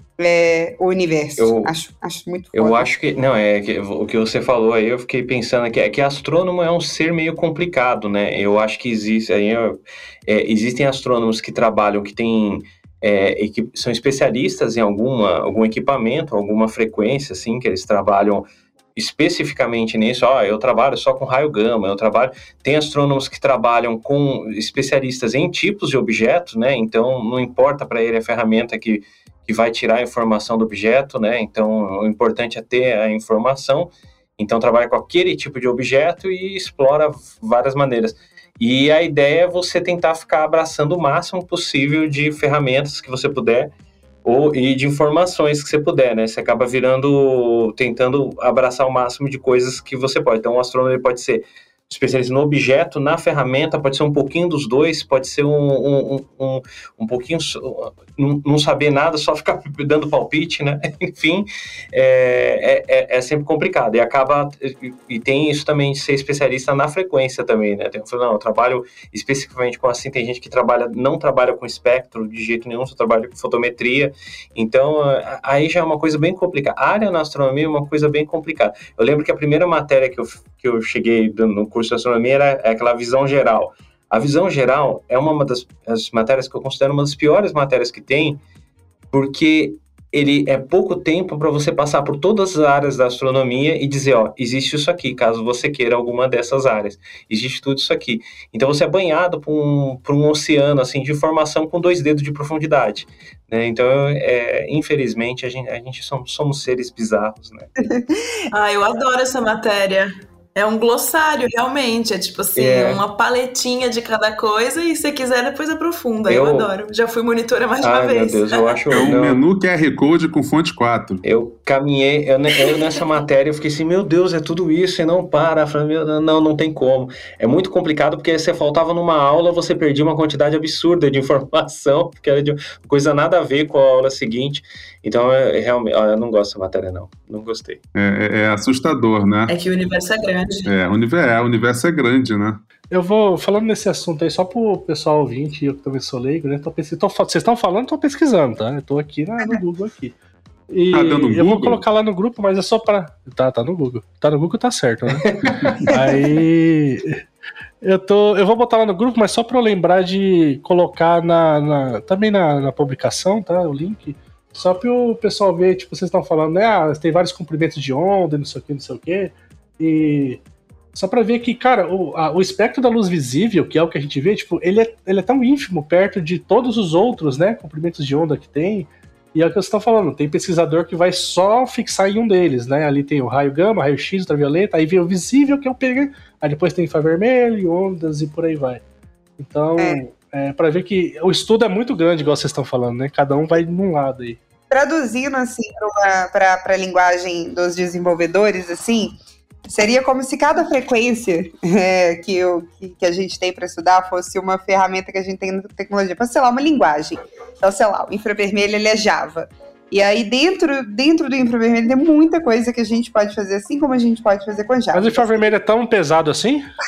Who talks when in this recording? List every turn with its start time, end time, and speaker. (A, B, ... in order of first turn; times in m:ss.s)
0:00.2-0:02.9 A
0:01.4-0:01.7 B
0:02.5-0:43.7 B
0:44.2-1:28.4 B
1:29.1-1:47.7 B
1:47.9-1:48.1 A
1:48.5-1:58.8 C
1:52.6-1:53.0 B
1:56.3-1:56.7 B
1:57.8-1:59.4 B
1:58.9-2:01.2 D
2:01.2-2:17.8 B
2:17.9-2:19.5 D
2:19.5-2:20.7 C
2:20.7-2:22.6 D
2:22.9-2:30.1 E
2:30.7-2:37.2 E
2:30.9-2:31.8 D
2:35.2-2:35.5 B
2:37.8-2:50.4 E
2:50.9-3:08.8 E
3:09.4-3:14.4 E
3:14.7-3:35.5 A
3:34.9-3:36.6 E